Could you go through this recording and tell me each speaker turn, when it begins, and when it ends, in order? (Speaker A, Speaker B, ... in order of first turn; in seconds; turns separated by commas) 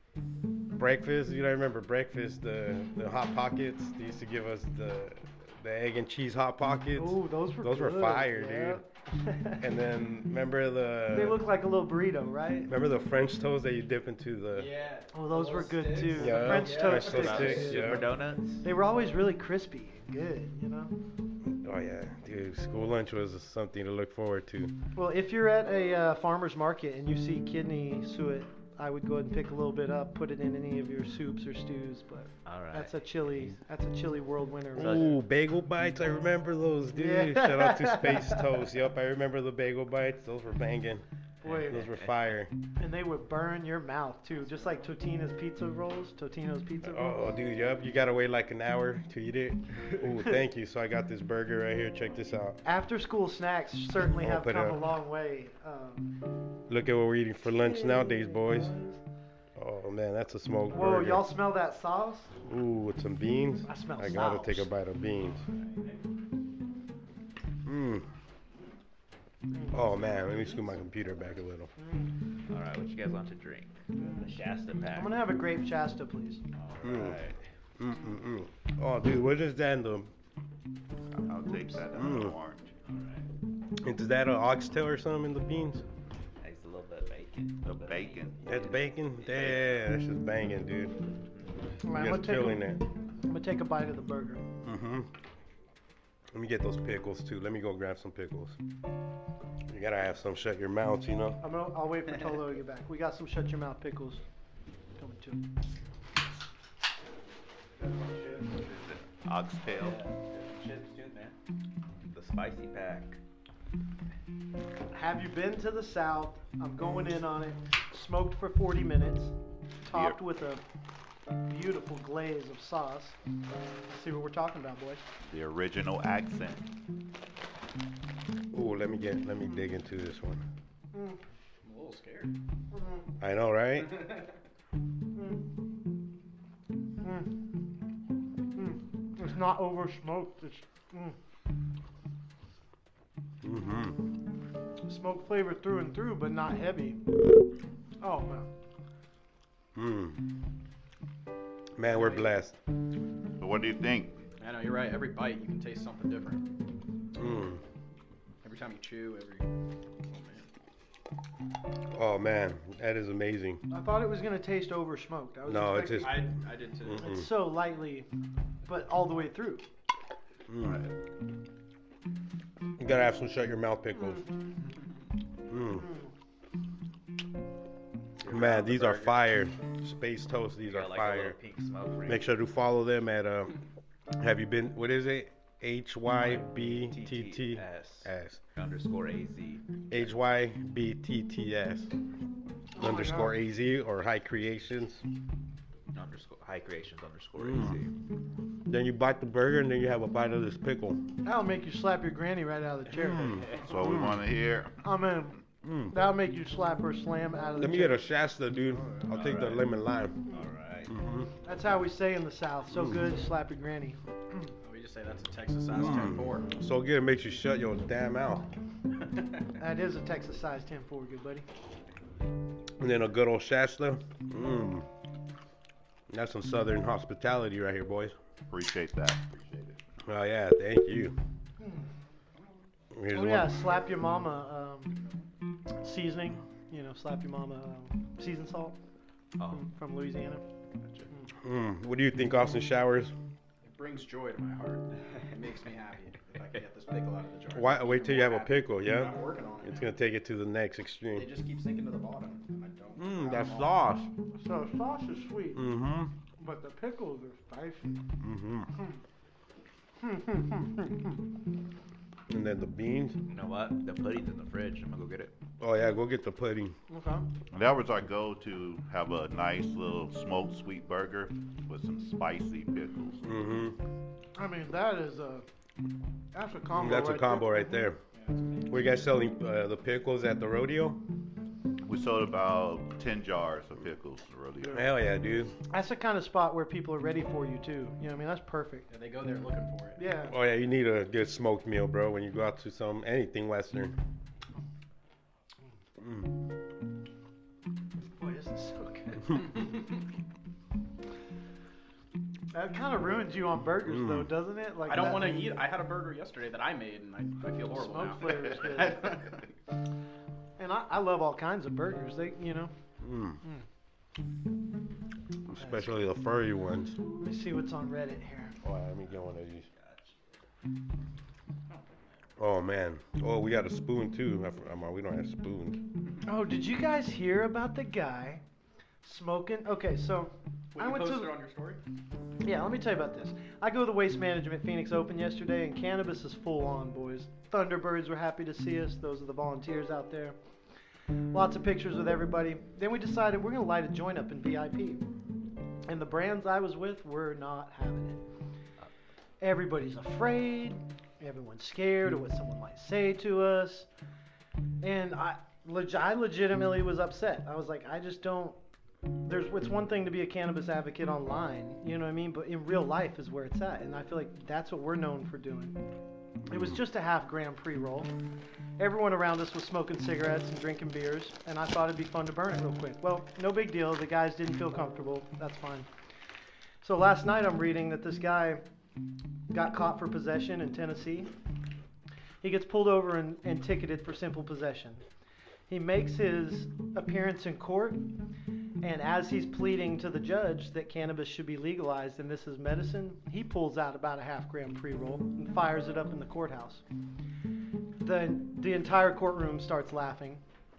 Speaker A: 0.7-8.8, Speaker B: 7.0-9.7, Speaker A: 9.6-11.5, Speaker B: 11.1-12.7, Speaker A: 12.7-14.8, Speaker C: 14.5-17.9, Speaker B: 15.1-18.1, Speaker A: 16.1-18.0, Speaker D: 16.9-18.6, Speaker B: 18.6-20.9, Speaker A: 21.5-24.7, Speaker B: 25.0-35.1, Speaker D: 32.5-33.5, Speaker A: 34.8-41.0, Speaker D: 34.8-35.1, Speaker B: 37.0-38.6, Speaker B: 41.4-41.9, Speaker D: 41.5-42.2, Speaker A: 41.6-42.5, Speaker B: 42.8-47.1, Speaker A: 46.9-52.6, Speaker B: 52.6-56.1, Speaker A: 54.2-54.8, Speaker A: 56.7-58.7, Speaker B: 57.5-59.0, Speaker A: 59.6-61.3, Speaker B: 60.7-62.3, Speaker A: 62.4-65.5, Speaker B: 63.6-64.7, Speaker C: 65.4-66.0, Speaker A: 67.7-68.1, Speaker A: 69.7-71.7, Speaker B: 71.8-72.1, Speaker D: 72.5-75.2, Speaker B: 74.0-74.3, Speaker B: 74.9-76.4, Speaker D: 76.5-77.4, Speaker A: 76.8-77.2, Speaker A: 77.8-80.1, Speaker E: 81.1-82.7, Speaker A: 81.9-82.4, Speaker D: 82.9-83.3, Speaker A: 83.8-85.8, Speaker D: 86.4-89.8, Speaker E: 87.7-88.4, Speaker A: 88.5-91.0, Speaker B: 91.8-92.8, Speaker A: 91.9-92.8, Speaker B: 93.3-94.4, Speaker A: 94.6-95.1, Speaker A: 96.3-98.6, Speaker A: 99.7-101.4, Speaker B: 101.4-104.2, Speaker B: 105.0-105.4, Speaker E: 108.6-110.0, Speaker D: 109.7-111.3, Speaker D: 112.1-113.2, Speaker B: 114.9-120.6, Speaker E: 119.9-120.2, Speaker B: 121.4-123.2, Speaker B: 123.9-125.0, Speaker E: 125.2-126.7, Speaker A: 128.5-130.4, Speaker B: 130.9-131.2, Speaker C: 131.6-132.3, Speaker B: 132.7-133.0, Speaker A: 133.2-134.1, Speaker C: 133.8-134.3, Speaker B: 137.0-137.3, Speaker B: 138.6-141.2, Speaker A: 143.4-144.1, Speaker B: 144.8-147.0, Speaker B: 148.0-148.5, Speaker A: 149.8-150.2, Speaker A: 151.8-152.6, Speaker E: 153.4-154.3, Speaker C: 154.4-156.5, Speaker A: 157.2-157.6, Speaker C: 158.4-159.5, Speaker C: 160.0-160.5, Speaker A: 161.9-163.6, Speaker B: 163.7-166.3, Speaker A: 165.5-166.3, Speaker C: 166.0-167.1, Speaker A: 166.8-167.3, Speaker B: 166.9-168.1, Speaker B: 168.7-169.7, Speaker A: 170.5-170.8, Speaker A: 172.8-174.3, Speaker A: 175.5-175.9, Speaker D: 178.2-179.2, Speaker A: 178.3-181.4, Speaker D: 180.6-182.3, Speaker A: 182.1-183.6, Speaker A: 184.1-188.4, Speaker D: 186.2-190.0, Speaker A: 189.9-191.9, Speaker B: 192.8-193.4, Speaker A: 192.8-195.0, Speaker D: 195.9-197.9, Speaker A: 197.4-197.8, Speaker A: 198.7-201.1, Speaker B: 201.2-203.5, Speaker A: 203.0-204.2, Speaker E: 203.6-204.8, Speaker B: 204.8-208.0, Speaker A: 205.6-205.9, Speaker A: 207.6-210.3, Speaker D: 209.1-209.7, Speaker D: 210.3-210.9, Speaker A: 210.9-211.3, Speaker B: 211.4-214.5, Speaker A: 212.7-213.0, Speaker C: 214.6-216.5, Speaker A: 215.8-218.5, Speaker B: 219.6-221.5, Speaker A: 222.8-224.9, Speaker A: 226.1-228.1, Speaker E: 228.5-229.8, Speaker A: 230.1-231.2, Speaker B: 231.6-231.8, Speaker A: 232.9-233.6, Speaker B: 233.1-235.0, Speaker B: 235.8-238.8, Speaker D: 239.4-239.6, Speaker B: 239.5-240.4, Speaker D: 240.8-241.1, Speaker A: 241.4-243.1, Speaker C: 243.6-249.9, Speaker A: 247.5-251.3, Speaker C: 251.1-253.8, Speaker A: 253.0-254.1, Speaker B: 254.4-255.7, Speaker A: 255.6-256.1, Speaker B: 256.4-258.0, Speaker A: 258.2-258.7, Speaker B: 260.0-261.2, Speaker A: 262.3-263.2, Speaker D: 263.3-265.3, Speaker A: 265.6-266.8, Speaker B: 266.9-267.3, Speaker E: 267.5-273.3, Speaker A: 273.2-273.8, Speaker B: 274.4-275.5, Speaker B: 276.3-277.9, Speaker A: 276.8-278.0, Speaker C: 278.1-278.8, Speaker A: 278.7-281.0, Speaker E: 281.8-284.9, Speaker A: 284.7-285.6, Speaker B: 285.7-288.9, Speaker C: 288.9-290.0, Speaker B: 290.0-290.3, Speaker A: 290.3-293.9, Speaker A: 296.0-296.3, Speaker B: 298.2-299.5, Speaker B: 302.5-305.5, Speaker A: 303.9-304.3, Speaker C: 304.8-309.5, Speaker B: 307.7-309.2, Speaker B: 310.6-312.7, Speaker A: 313.0-313.4, Speaker A: 315.5-317.0, Speaker B: 317.1-318.6, Speaker A: 318.6-319.7, Speaker A: 322.4-325.8, Speaker B: 326.2-328.4, Speaker B: 329.0-331.4, Speaker C: 330.8-331.8, Speaker B: 332.4-340.4, Speaker B: 341.3-345.0, Speaker B: 345.9-348.2, Speaker B: 349.4-353.9, Speaker B: 354.8-358.6, Speaker B: 359.2-365.8, Speaker A: 366.5-366.8, Speaker B: 366.5-368.1, Speaker B: 368.8-375.9, Speaker B: 376.8-378.6, Speaker B: 379.5-381.3, Speaker B: 382.4-385.0, Speaker B: 385.7-388.1, Speaker B: 388.8-396.8, Speaker B: 398.0-400.4